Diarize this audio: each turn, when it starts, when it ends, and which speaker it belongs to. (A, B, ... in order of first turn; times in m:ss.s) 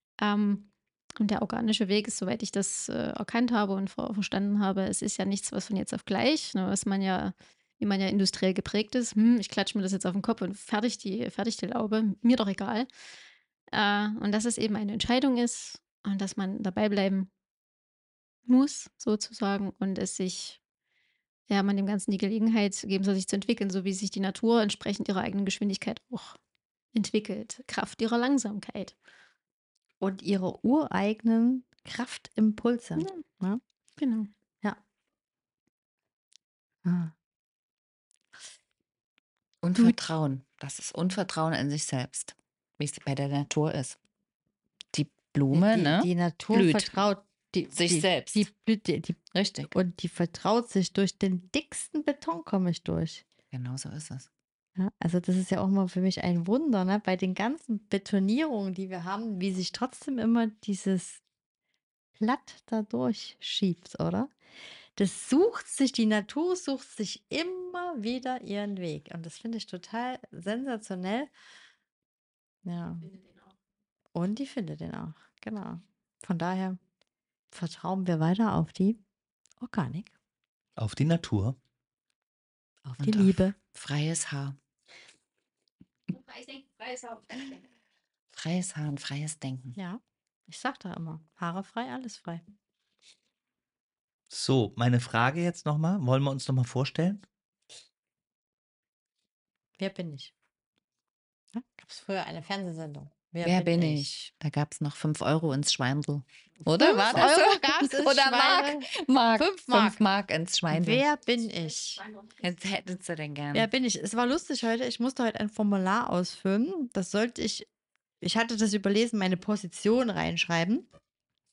0:00.2-0:12.9 A
0:13.7-0:17.3 A
0:18.5-0:20.6 A
0:21.5-0:26.4 A
0:26.9-0:29.0 A
0:30.0-0:33.6 B
0:33.0-0:33.2 A
0:34.0-0:34.3 A
0:36.8-0:37.1 B
0:39.6-0:44.0 C
0:44.9-0:46.9 C
0:45.5-0:53.2 B
0:47.7-0:48.5 C
0:49.3-0:49.7 C
0:53.5-0:54.3 C
0:54.8-1:01.2 B
1:02.2-1:04.3 B
1:05.0-1:11.3 B
1:12.6-1:13.1 B
1:14.2-1:16.8 B
1:17.5-1:19.0 B
1:19.6-1:20.1 B
1:20.8-1:21.6 D
1:22.9-1:23.6 B
1:23.0-1:24.6 C
1:26.3-1:27.4 A
1:28.3-1:29.8 C
1:29.8-1:32.4 B
1:34.3-1:37.2 D
1:39.8-1:40.3 B
1:41.6-1:44.1 B
1:43.4-1:51.0 C
1:46.7-1:50.0 B
1:50.7-1:52.0 B
1:52.4-1:53.7 C
1:53.5-1:57.7 B
1:58.2-2:00.9 B